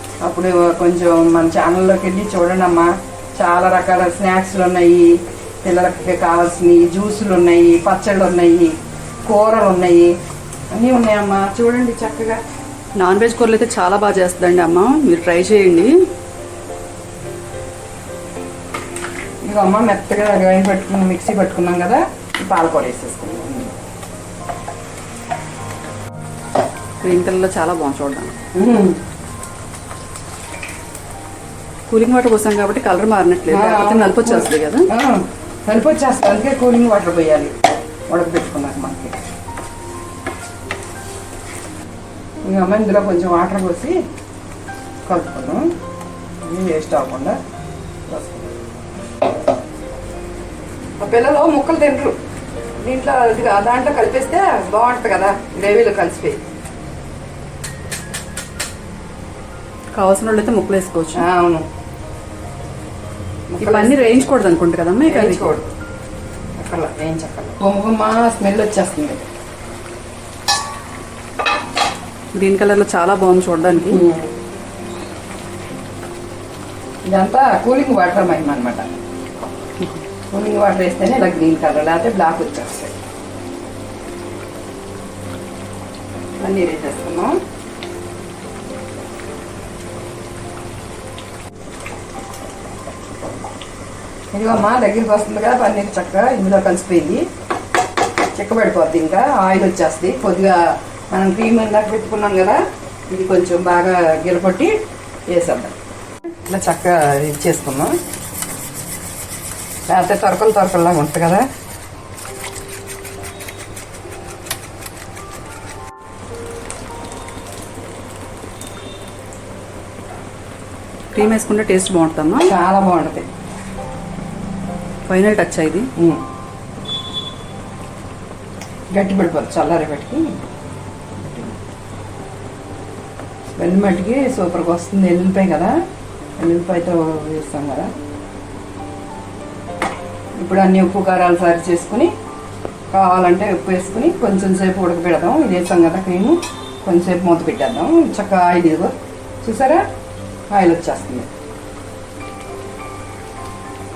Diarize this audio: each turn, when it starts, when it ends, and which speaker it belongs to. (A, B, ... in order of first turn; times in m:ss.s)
0:00.2-0:08.7 A
0:09.2-0:10.1 A
0:10.7-0:12.4 A
0:13.0-0:15.9 B
0:19.4-0:23.7 A
0:27.0-0:28.3 B
0:28.5-0:29.0 A
0:31.9-0:34.9 B
0:33.5-0:37.5 A
0:38.1-0:39.2 A
0:42.4-0:44.0 A
0:45.0-0:45.7 A
0:46.4-0:47.4 A
0:48.1-0:48.5 A
0:51.0-0:52.2 A
0:52.8-0:56.4 A
0:59.9-1:01.2 B
1:01.1-1:01.6 A
1:03.5-1:04.3 A
1:03.6-1:05.5 B
1:05.0-1:05.7 A
1:06.6-1:09.2 A
1:12.3-1:14.0 B
1:13.8-1:14.3 A
1:17.1-1:18.8 A
1:20.3-1:22.9 A
1:26.4-1:27.4 A
1:34.3-1:37.2 A
1:38.3-1:44.7 A
1:45.3-1:45.7 A
1:46.4-1:47.9 A
1:49.9-1:51.4 A
2:01.1-2:02.5 B
2:02.4-2:03.2 A
2:05.1-2:05.9 B
2:06.0-2:06.2 A
2:08.9-2:10.3 A
2:11.2-2:11.6 A
2:13.6-2:15.8 A
2:16.4-2:17.9 A
2:20.4-2:22.1 A
2:22.9-2:29.8 A
2:30.5-2:31.3 A